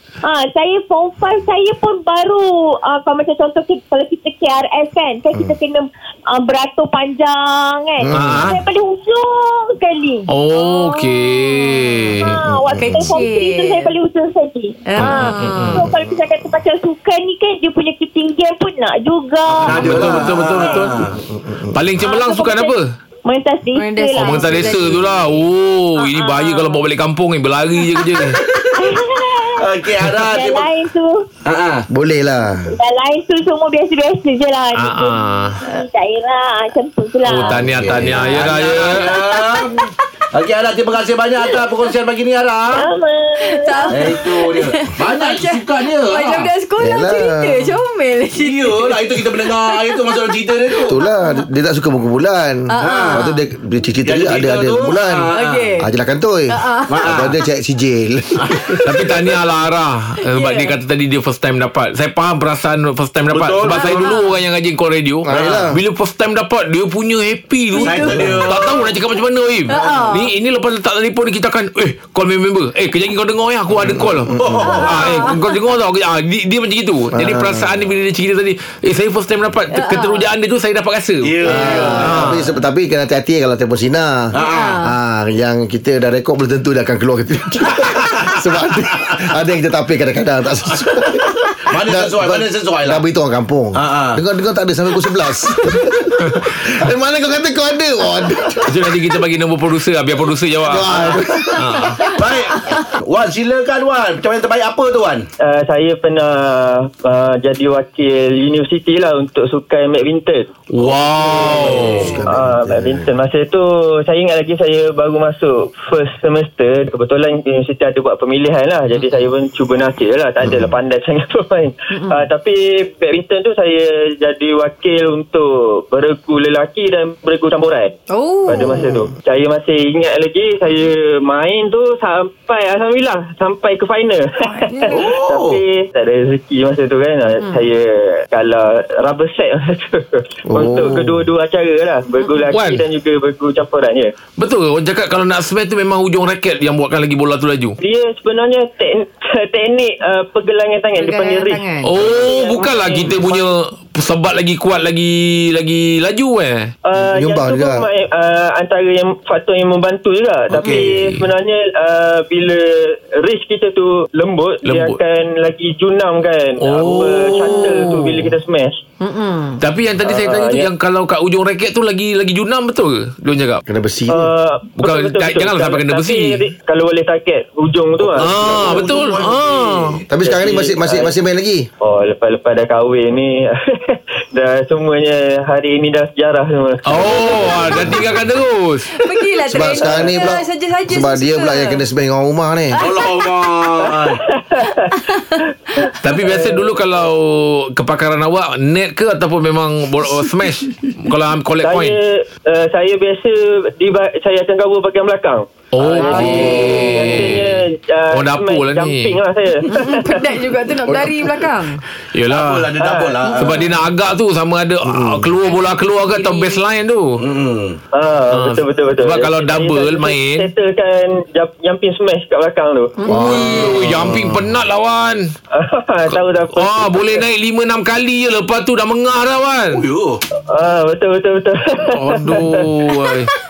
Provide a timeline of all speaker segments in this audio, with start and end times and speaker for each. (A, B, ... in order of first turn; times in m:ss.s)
0:00.2-0:11.6 A
0:08.0-0:08.5 B
0:08.1-0:08.6 C
0:10.3-0:12.4 C
0:12.2-0:20.9 A
0:12.7-0:13.2 B
0:12.8-0:13.9 D
0:14.9-0:15.8 D
0:15.0-0:15.9 C
0:19.6-0:21.2 E
0:19.6-0:21.0 C
0:21.3-0:21.8 B
0:21.7-0:22.9 C
0:22.0-0:24.6 A
0:23.8-0:25.2 D
0:24.2-0:28.4 C
0:24.7-0:25.0 B
0:26.0-0:26.8 A
0:28.5-0:28.8 E
0:28.7-0:31.3 A
0:29.5-0:30.7 E
0:31.4-0:31.9 E
0:31.9-0:32.7 B
0:32.7-0:37.6 A
0:34.8-0:35.6 C
0:37.2-0:39.1 C
0:37.5-0:42.8 E
0:39.4-0:39.8 D
0:42.7-0:44.3 A
0:43.4-0:51.4 D
0:43.9-0:46.5 E
0:46.8-0:47.8 B
0:48.3-0:51.0 E
0:50.9-0:58.8 B
0:52.7-0:53.4 D
0:52.8-0:53.3 E
0:54.0-0:55.7 E
0:55.3-0:55.9 D
0:56.5-0:57.0 D
0:56.9-0:57.3 E
0:58.4-0:59.1 E
0:58.8-1:22.4 C
1:00.2-1:00.7 D
1:03.3-1:04.1 E
1:03.7-1:04.3 D
1:05.3-1:05.8 B
1:05.3-1:05.6 E
1:07.7-1:08.3 D
1:07.8-1:08.9 E
1:09.7-1:10.3 D
1:09.7-1:10.1 E
1:14.0-1:14.7 B
1:14.3-1:15.3 E
1:14.6-1:15.4 D
1:17.1-1:17.8 B
1:19.7-1:20.3 D
1:21.2-1:22.4 E
1:21.4-1:39.0 B
1:24.3-1:24.8 E
1:24.4-1:24.9 D
1:27.7-1:28.4 E
1:29.0-1:29.3 E
1:31.7-1:33.0 E
1:33.8-1:34.2 E
1:38.7-1:42.1 C
1:40.7-1:42.0 B
1:42.0-1:45.3 E
1:45.4-1:50.5 F
1:50.7-1:52.2 C
1:50.8-1:52.2 E
1:51.6-1:53.1 B
1:52.3-2:07.9 F
2:00.4-2:00.7 B
2:01.9-2:02.3 D
2:08.1-2:09.0 D
2:08.5-2:24.1 F
2:14.4-2:15.0 D
2:14.9-2:15.6 E
2:20.5-2:21.3 B
2:22.5-2:22.8 C
2:24.4-2:27.8 C
2:27.8-2:33.5 F
2:31.0-2:31.9 D
2:31.8-2:36.7 C
2:36.8-2:48.8 F
2:37.0-2:37.9 B
2:40.5-2:41.0 E
2:40.6-2:41.3 C
2:44.6-2:45.0 C
2:46.6-2:48.4 C
2:49.0-2:49.6 D
2:49.6-2:53.6 C
2:50.0-2:50.7 F
2:53.7-2:54.3 B
2:54.1-2:58.9 F
2:54.8-2:56.4 C
2:58.0-3:00.1 E
2:58.2-3:00.0 C
3:00.1-3:01.7 B
3:00.2-3:01.1 F
3:01.8-3:07.8 F
3:06.8-3:09.2 C
3:07.7-3:08.0 B
3:08.9-3:11.8 D
3:09.5-3:12.8 B
3:12.7-3:13.5 D
3:12.8-3:14.2 E
3:14.0-3:16.8 F
3:14.6-3:15.9 D
3:16.0-3:22.0 C
3:21.6-3:30.3 F
3:25.7-3:27.6 C
3:25.9-3:26.2 E
3:26.1-3:27.2 D
3:28.1-3:29.2 C
3:29.7-3:31.8 D
3:32.1-3:32.7 C
3:32.3-3:33.7 E
3:32.8-3:33.3 F
3:33.4-3:37.2 C
3:34.8-3:35.3 B
3:35.5-3:36.6 D
3:37.2-3:37.8 E
3:37.9-3:43.0 F
3:38.3-3:40.5 C
3:43.0-3:43.7 D
3:43.1-3:44.4 B
3:43.1-3:45.3 C
3:45.5-3:47.2 F
3:46.1-3:49.8 C
3:49.7-3:50.2 E
3:50.5-3:52.7 F
3:51.9-3:53.3 C